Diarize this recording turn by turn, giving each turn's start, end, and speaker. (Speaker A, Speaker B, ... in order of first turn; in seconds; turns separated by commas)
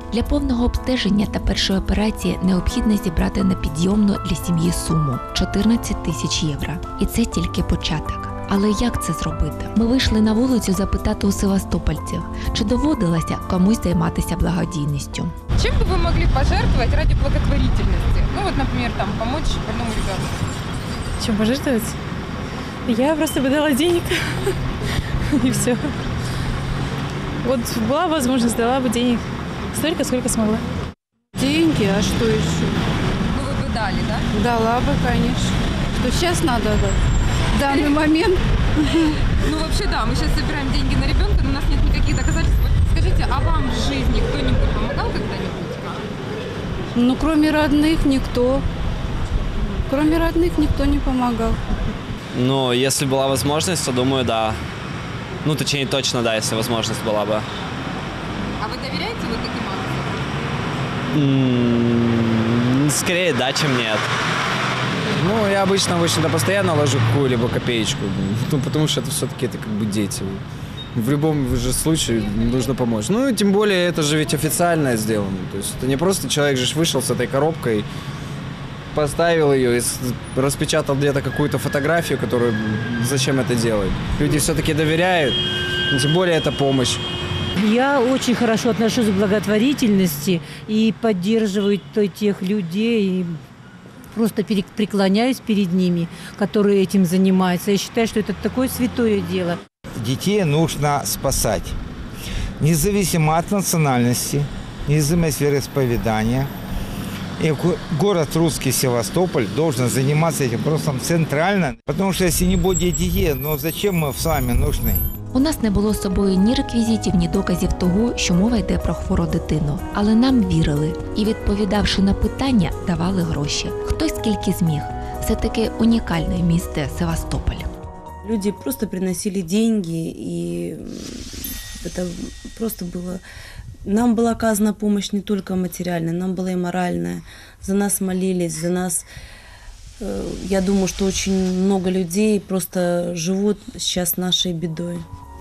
Speaker A: 0.1-15.3, Speaker B: 15.6-20.3, Speaker C: 21.2-22.0, Speaker C: 22.9-24.5, Speaker C: 25.3-25.9, Speaker C: 27.4-30.6, Speaker D: 31.4-32.7, Speaker B: 33.3-34.3, Speaker D: 34.3-37.0, Speaker D: 37.5-38.4, Speaker B: 37.6-38.0, Speaker B: 39.4-46.1, Speaker D: 46.9-48.6, Speaker D: 49.9-51.6, Speaker E: 52.3-54.5, Speaker E: 55.4-57.4, Speaker B: 58.6-60.2, Speaker E: 61.1-62.2, Speaker E: 62.9-64.0, Speaker F: 65.1-70.4, Speaker F: 70.9-77.9, Speaker F: 78.9-85.4, Speaker F: 85.9-87.0, Speaker G: 87.5-93.4, Speaker G: 94.1-99.6, Speaker H: 100.0-101.8, Speaker H: 102.6-106.5, Speaker H: 107.4-115.0, Speaker A: 115.3-127.7, Speaker I: 128.2-133.2, Speaker I: 133.8-139.1, Speaker I: 140.0-145.1